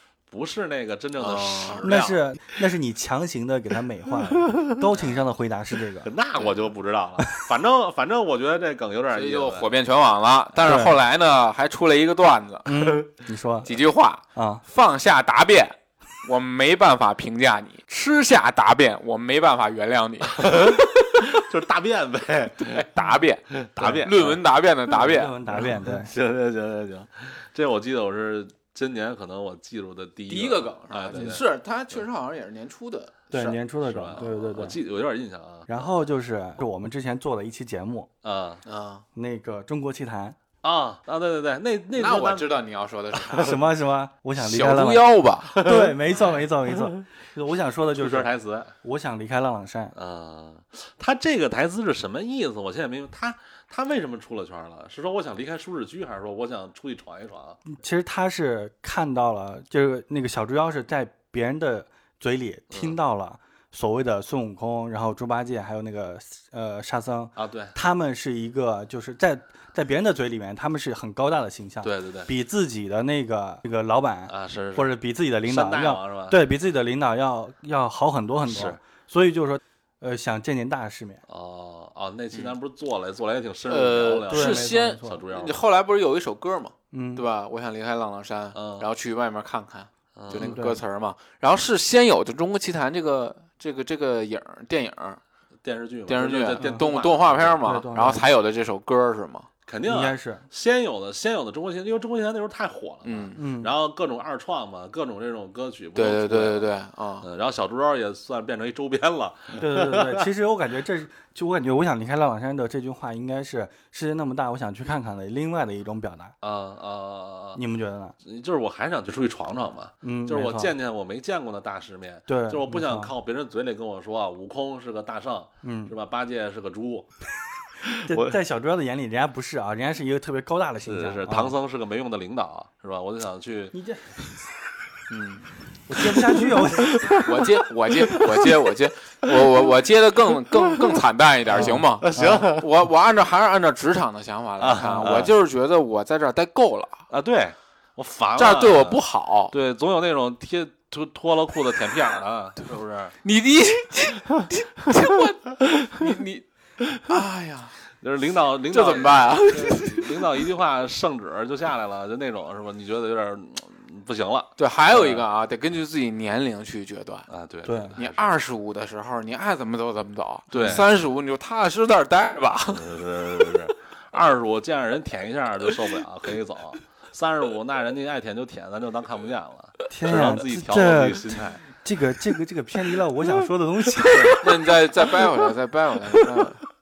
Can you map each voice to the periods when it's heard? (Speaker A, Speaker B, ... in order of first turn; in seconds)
Speaker A: 0.3-2.2, 4.6-5.0, 6.0-9.7, 20.3-22.8, 23.5-24.4, 25.5-32.0, 33.8-35.7, 38.2-38.6, 40.6-42.5, 43.2-43.5, 44.6-44.8, 45.5-45.9, 48.0-48.7, 50.0-57.6, 62.7-63.0, 67.4-67.8, 71.8-72.3, 74.3-74.9, 75.4-76.4, 78.5-78.8, 81.3-85.6, 88.5-88.9, 90.2-90.6, 95.6-97.6, 99.7-106.7, 107.2-110.3, 116.4-117.6, 118.2-127.1, 127.8-128.4, 130.8-133.8, 136.0-137.5, 141.5-142.7, 144.6-145.3, 147.1-153.2, 158.0-165.3, 167.3-168.3, 170.5-170.9, 172.7-181.6
Speaker B: 1.2-1.9, 9.1-12.8, 13.7-20.8, 22.6-25.3, 30.3-33.6, 38.6-39.0, 42.0-43.5, 44.4-45.7, 83.7-95.2, 96.1-99.5, 103.0-103.4, 106.0-107.3, 135.1-135.5, 137.2-147.1, 148.4-149.5, 153.2-157.8, 158.7-160.4, 164.6-167.3, 168.0-172.8, 184.4-186.6
Speaker C: 1.8-6.1, 10.7-11.0, 12.7-13.7, 14.3-14.6, 24.9-26.1, 33.3-34.8, 35.7-38.1, 39.1-40.4, 43.4-48.3, 48.8-49.9, 57.7-81.2, 84.3-85.2, 86.9-87.2, 90.3-90.8, 96.6-96.9, 97.6-98.3, 99.9-100.5, 103.4-103.7, 109.6-116.3, 117.6-118.2, 120.0-120.7, 122.3-123.1, 125.6-125.9, 128.0-131.6, 133.7-134.2, 135.9-137.1, 141.5-142.5, 167.7-168.0, 179.9-184.5